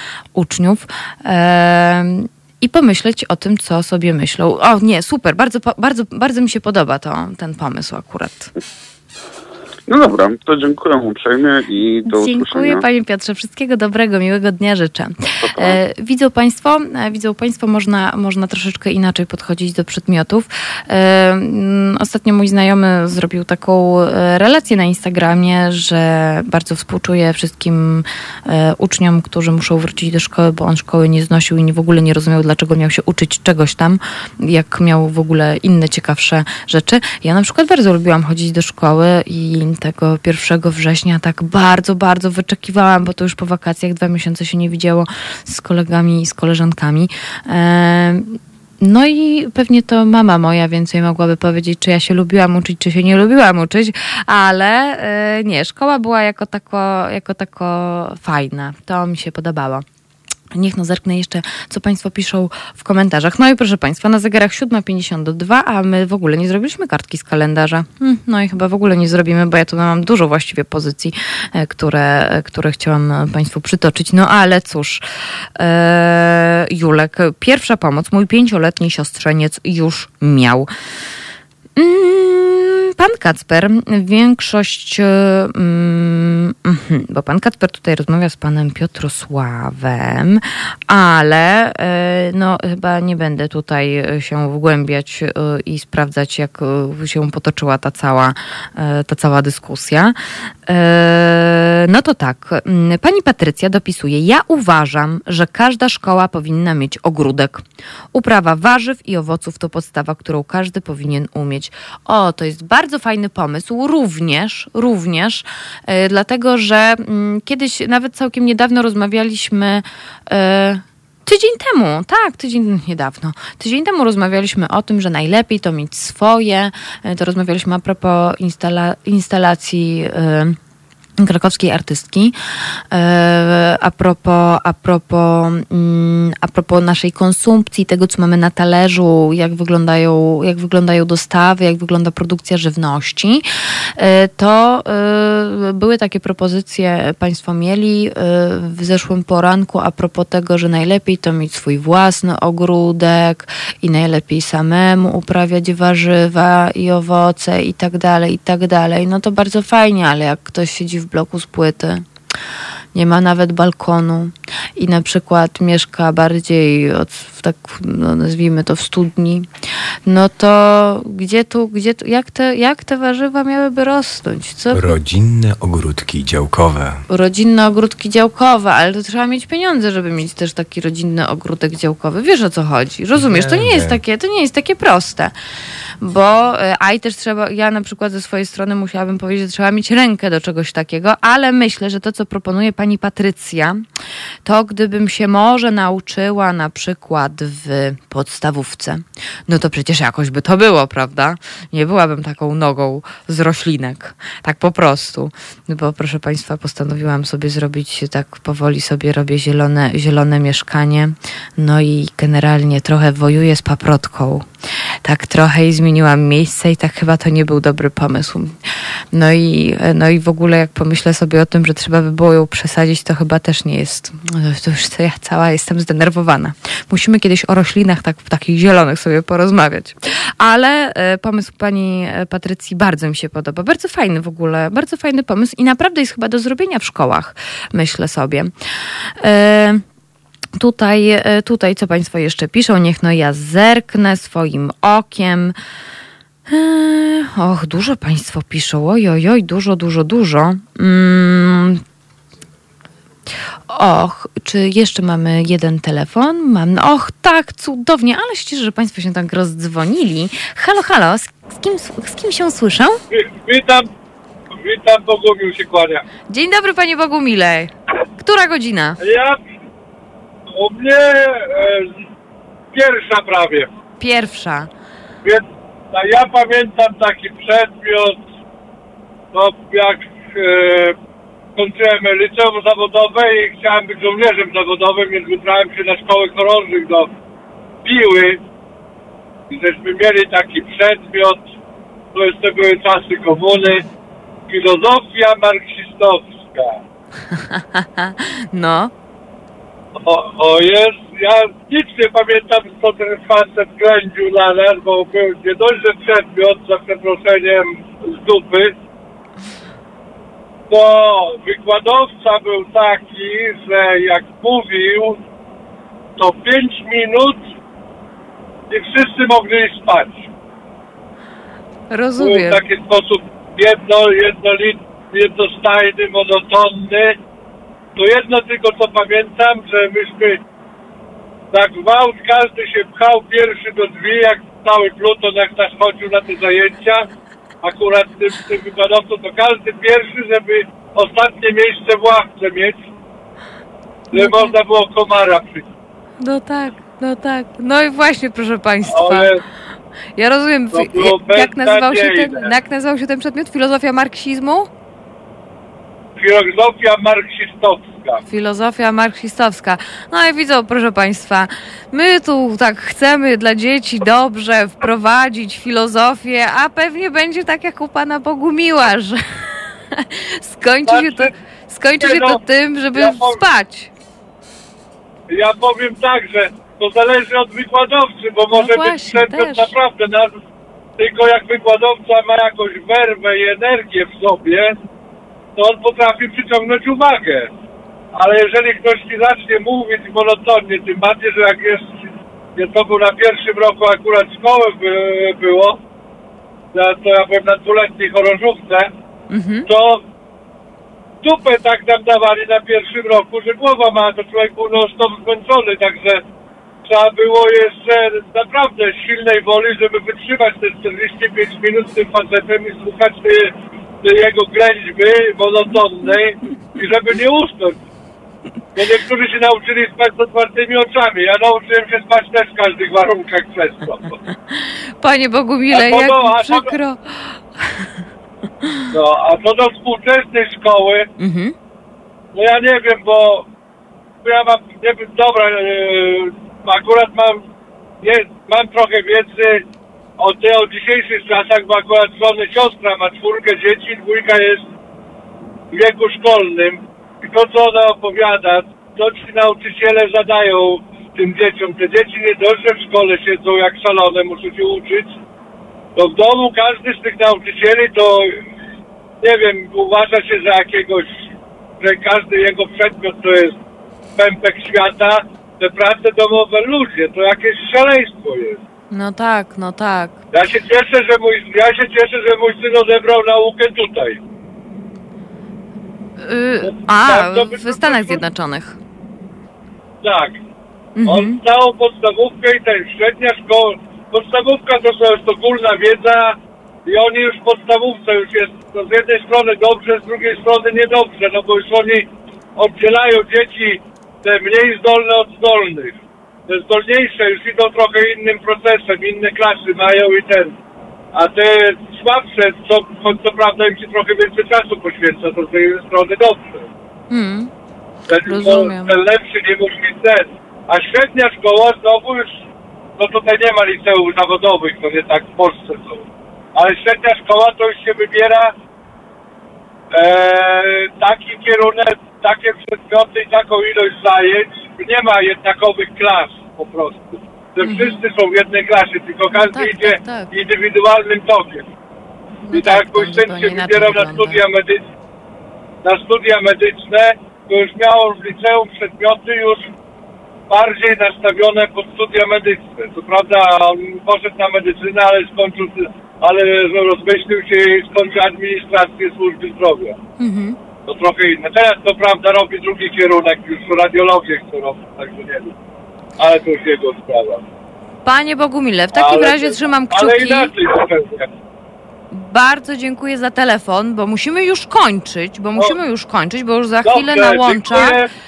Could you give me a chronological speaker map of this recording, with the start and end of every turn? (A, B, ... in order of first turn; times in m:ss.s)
0:00.3-0:08.5 A
0:09.9-0:12.8 B
0:12.1-0:59.8 A
0:15.4-0:15.8 B
1:00.5-1:15.0 A
1:15.6-1:20.7 A
1:21.8-1:40.1 A
1:40.7-1:47.6 A
1:48.1-2:10.6 A
2:11.2-2:12.3 A
2:12.9-2:23.4 A
2:24.0-2:42.0 A
2:42.9-2:49.5 A
2:50.0-2:54.8 A
2:54.7-2:57.0 C
2:57.1-3:05.3 A
3:03.2-3:04.0 C
3:06.0-3:13.8 A
3:14.4-3:34.4 A
3:35.0-3:38.5 A
3:39.1-3:58.5 A
3:59.2-3:59.8 A
4:00.6-4:05.5 A
4:06.5-4:11.8 A
4:13.7-4:23.0 A
4:23.1-4:23.9 D
4:24.5-4:26.0 D
4:26.3-4:29.0 A
4:29.0-4:29.5 D
4:30.5-4:32.0 D
4:32.7-4:33.7 D
4:34.0-4:34.7 A
4:35.2-4:38.2 D
4:39.3-4:41.0 D
4:41.6-4:47.1 D
4:47.8-4:48.4 D
4:49.5-4:51.5 D
4:52.1-4:53.8 D
4:54.5-4:56.8 D
4:57.3-4:58.9 A
5:00.0-5:08.7 D
5:10.7-5:15.2 D
5:16.2-5:17.4 D
5:18.7-5:20.3 D
5:21.9-5:22.6 A
5:22.2-5:27.2 D
5:28.0-5:30.4 D
5:31.5-5:37.1 D
5:37.6-5:42.8 D
5:44.1-5:45.6 D
5:44.1-5:44.6 A
5:46.2-5:49.3 A
5:48.9-5:49.4 D
5:50.2-5:54.7 A
5:50.7-5:52.5 D
5:56.2-5:58.2 D
5:58.2-6:13.9 A
6:10.9-6:11.3 D
6:12.0-6:12.4 D
6:12.9-6:13.4 D
6:15.3-6:20.4 D
6:18.5-6:19.7 A
6:21.0-6:24.8 D
6:25.6-6:27.5 D
6:28.1-6:35.8 D
6:36.7-6:38.9 D
6:39.3-6:39.7 A
6:39.7-6:40.0 D
6:41.2-6:46.2 D
6:46.8-6:57.8 D
6:58.8-7:04.2 D
7:04.5-7:07.0 A
7:05.7-7:06.7 D
7:08.9-7:11.1 D
7:11.2-7:11.5 A
7:12.3-7:13.5 D
7:14.2-7:17.4 D
7:18.0-7:19.6 D
7:20.2-7:24.6 D
7:25.7-7:35.2 D
7:36.0-7:38.4 D
7:39.2-7:41.3 D
7:41.8-7:43.6 D
7:44.2-7:48.6 D
7:48.9-7:50.2 A
7:50.3-7:54.2 D
7:56.2-7:58.8 A
7:56.6-7:58.2 D
8:00.0-8:00.4 D
8:01.0-8:01.4 A
8:01.0-8:16.0 D
8:16.5-8:20.5 D
8:21.1-8:26.7 D
8:27.1-8:27.5 A
8:28.1-8:32.4 D
8:28.2-8:29.0 A
8:33.0-8:36.0 D
8:36.6-8:38.5 D
8:39.9-8:51.7 D
8:47.6-8:48.0 A
8:49.3-8:50.3 A
8:52.4-8:54.4 A
8:52.5-8:54.8 D
8:55.8-8:59.7 D
9:00.5-9:10.0 D
9:10.2-9:10.6 A
9:10.9-9:15.5 D
9:16.2-9:17.4 D
9:18.0-9:20.5 A
9:18.9-9:21.3 D
9:22.1-9:28.0 A
9:26.8-9:28.1 D